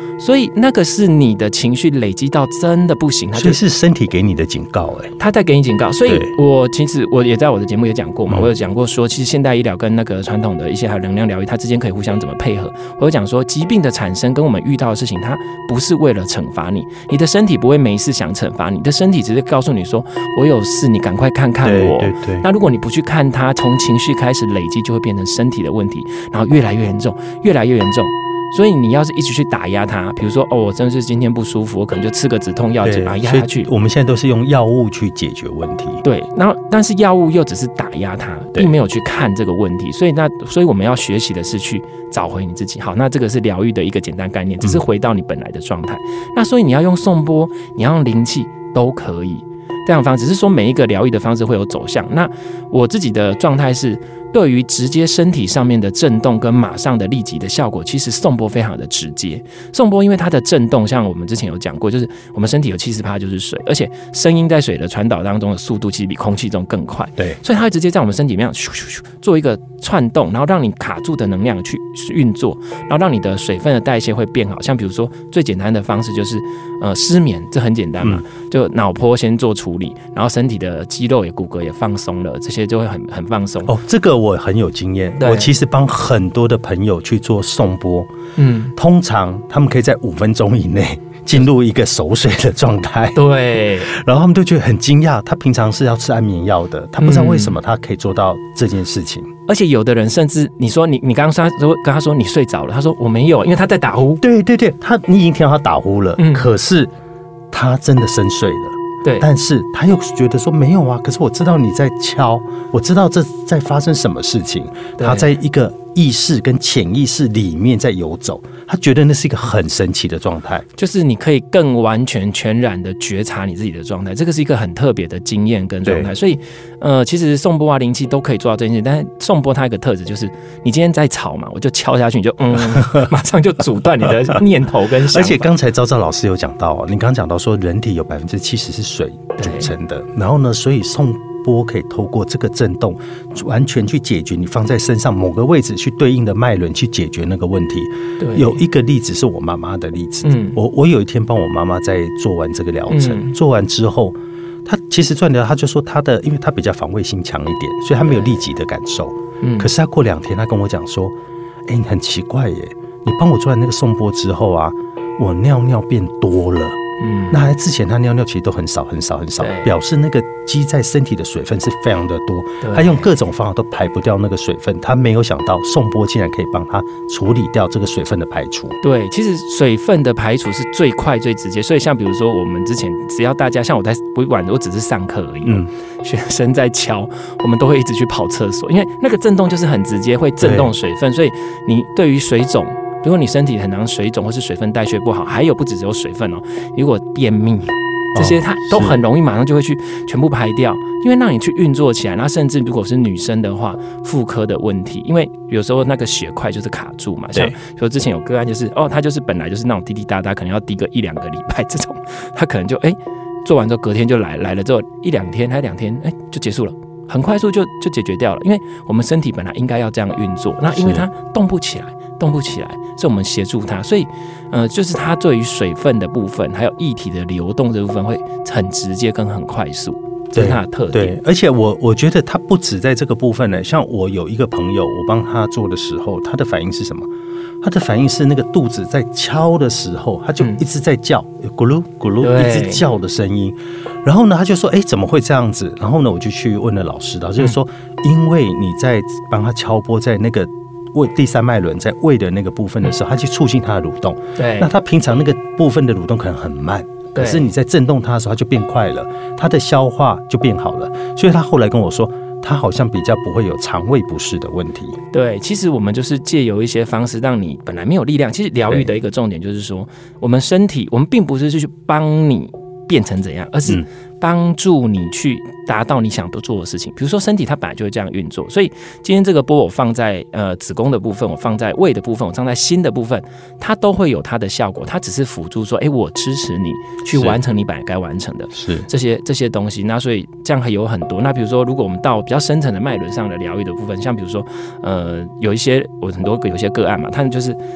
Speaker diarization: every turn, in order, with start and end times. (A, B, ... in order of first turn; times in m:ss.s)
0:00.2-0:03.6 A
0:03.3-0:05.2 B
0:05.2-0:33.7 A
0:06.1-0:06.3 B
0:21.6-0:22.5 B
0:32.8-0:36.0 B
0:36.0-1:23.7 A
1:23.7-1:28.1 B
1:25.2-1:25.5 A
1:28.4-1:28.7 A
1:28.8-1:33.2 B
1:33.2-1:33.9 A
1:33.8-1:39.3 B
1:37.0-1:37.6 A
1:39.5-1:44.2 A
1:44.2-1:46.9 B
1:46.2-1:46.5 A
1:47.5-2:00.6 B
1:55.0-1:55.3 A
2:00.8-2:15.5 A
2:05.8-2:06.1 B
2:12.8-2:13.1 B
2:15.1-2:41.1 B
2:19.4-2:19.7 A
2:28.2-2:28.6 A
2:30.2-2:30.6 A
2:32.9-2:33.4 A
2:39.4-2:39.7 A
2:41.7-2:46.8 B
2:47.0-2:47.4 A
2:47.3-2:58.8 B
2:49.4-2:49.7 A
2:52.6-2:53.1 A
2:58.8-3:51.2 A
3:05.4-3:05.7 B
3:10.4-3:10.7 B
3:18.2-3:19.0 B
3:40.7-3:41.1 B
3:50.3-3:57.1 B
3:57.6-4:25.0 B
4:02.2-4:02.8 A
4:14.4-4:14.7 A
4:17.1-4:17.5 A
4:25.1-4:57.6 A
4:47.1-4:47.4 B
4:48.5-4:48.9 B